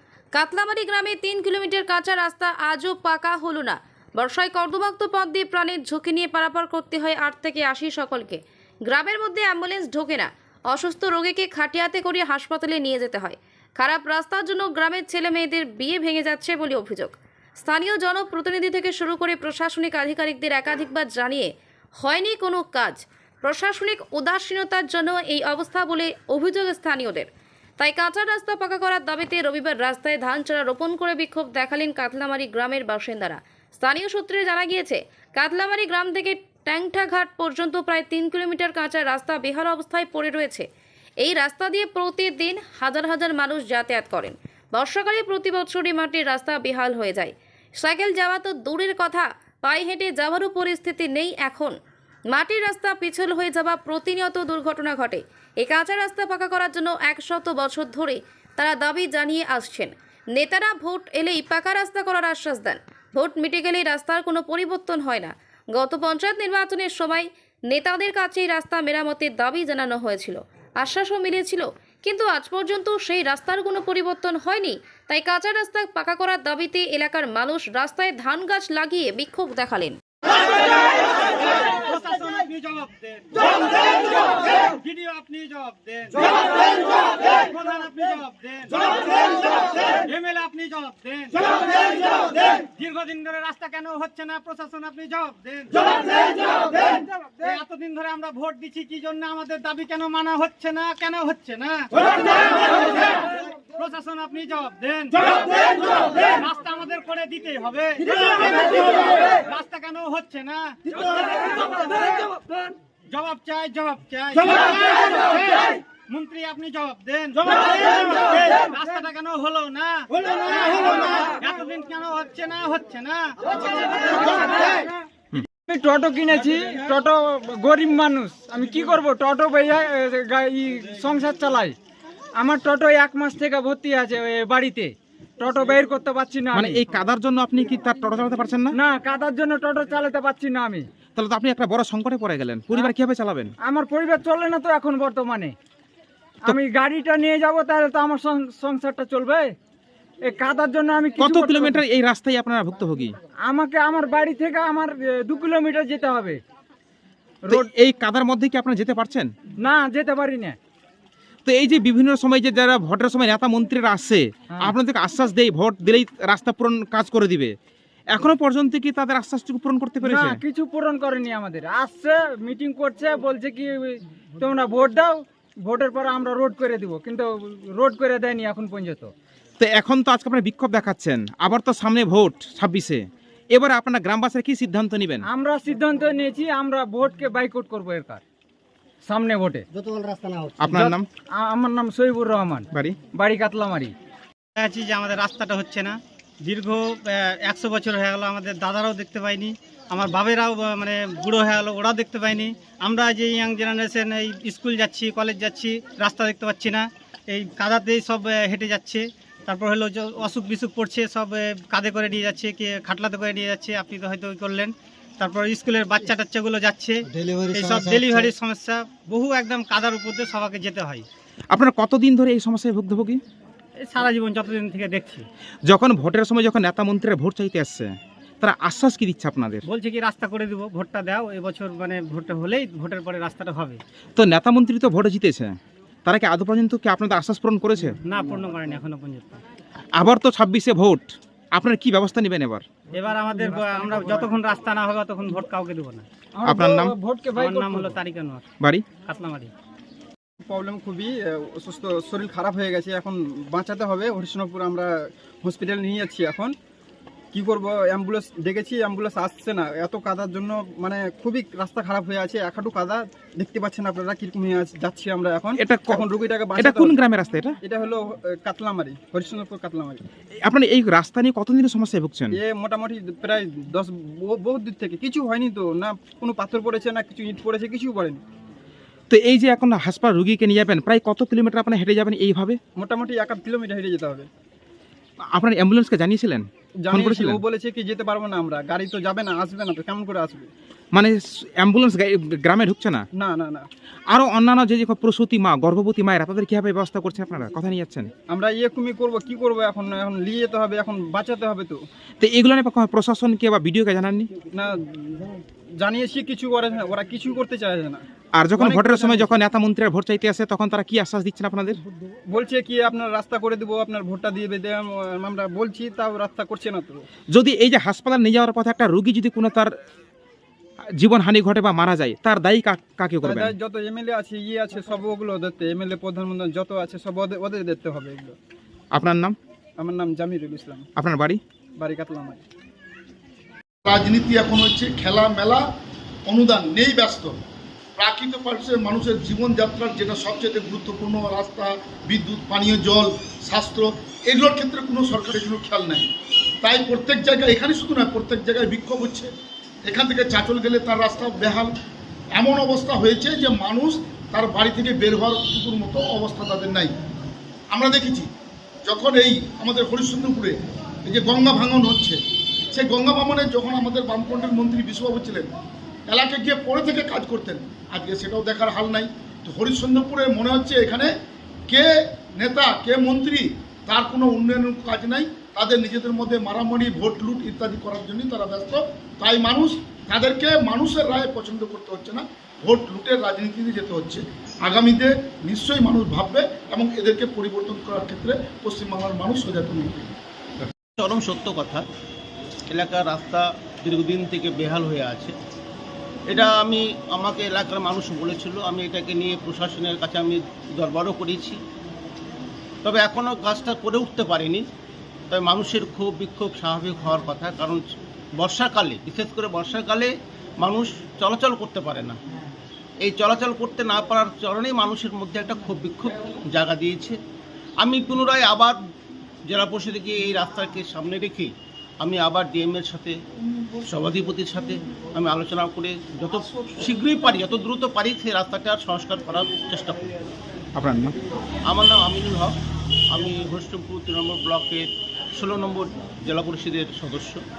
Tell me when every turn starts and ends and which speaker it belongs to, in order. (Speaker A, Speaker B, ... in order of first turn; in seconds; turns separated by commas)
Speaker A: 0.3-27.3, Speaker A: 27.8-40.6, Speaker A: 41.2-51.8, Speaker A: 52.3-80.0, Speaker B: 81.6-112.0, Speaker B: 113.1-124.8, Speaker C: 125.7-131.7, Speaker C: 132.4-136.8, Speaker D: 136.5-138.8, Speaker C: 138.7-140.8, Speaker D: 141.2-143.5, Speaker C: 143.6-145.5, Speaker C: 146.4-149.5, Speaker C: 150.2-151.8, Speaker D: 151.2-153.1, Speaker C: 153.5-156.4, Speaker D: 157.5-159.3, Speaker C: 159.6-160.6, Speaker D: 161.4-167.5, Speaker D: 168.1-170.4, Speaker C: 170.0-179.1, Speaker D: 179.6-185.2, Speaker C: 185.2-188.2, Speaker C: 189.1-189.7, Speaker D: 190.6-191.1, Speaker C: 190.7-193.9, Speaker B: 194.6-221.0, Speaker D: 221.5-223.2, Speaker B: 223.8-225.2, Speaker D: 225.7-227.9, Speaker D: 228.4-229.6, Speaker B: 229.7-233.8, Speaker D: 234.2-235.5, Speaker D: 236.1-237.9, Speaker B: 238.1-239.4, Speaker D: 239.9-242.6, Speaker B: 242.9-246.0, Speaker C: 246.4-247.9, Speaker D: 246.4-246.9, Speaker B: 247.3-248.4, Speaker B: 249.1-249.5, Speaker E: 250.4-254.9, Speaker E: 255.4-256.5, Speaker E: 257.3-267.0, Speaker D: 265.6-267.6, Speaker E: 267.6-270.0, Speaker D: 270.4-272.4, Speaker E: 272.3-278.2, Speaker D: 279.1-282.6, Speaker E: 282.8-284.3, Speaker D: 285.3-287.4, Speaker E: 286.8-290.5, Speaker D: 290.9-293.0, Speaker E: 293.1-293.6, Speaker D: 294.1-298.1, Speaker E: 298.3-301.8, Speaker D: 302.2-304.3, Speaker E: 304.4-308.0, Speaker D: 308.3-311.8, Speaker E: 308.6-309.3, Speaker E: 312.3-317.0, Speaker D: 317.3-319.7, Speaker D: 321.0-323.5, Speaker E: 323.2-328.4, Speaker D: 328.9-329.4, Speaker E: 329.8-330.9, Speaker D: 331.0-331.4, Speaker E: 331.8-332.4, Speaker F: 333.9-335.6, Speaker F: 336.2-337.3, Speaker F: 338.0-346.1, Speaker F: 346.6-349.3, Speaker F: 349.8-351.7, Speaker F: 352.3-356.9, Speaker F: 357.7-358.3, Speaker F: 358.9-362.2, Speaker F: 362.7-365.5, Speaker F: 366.1-371.1, Speaker F: 371.7-390.1, Speaker G: 391.0-391.8, Speaker G: 392.7-395.3, Speaker G: 396.3-401.6, Speaker G: 402.8-404.6, Speaker G: 405.3-407.8, Speaker G: 408.4-412.2, Speaker G: 413.0-417.2, Speaker G: 417.8-418.8, Speaker G: 419.4-423.1, Speaker G: 423.9-430.1, Speaker D: 430.8-431.1, Speaker G: 431.6-432.5, Speaker G: 433.1-437.4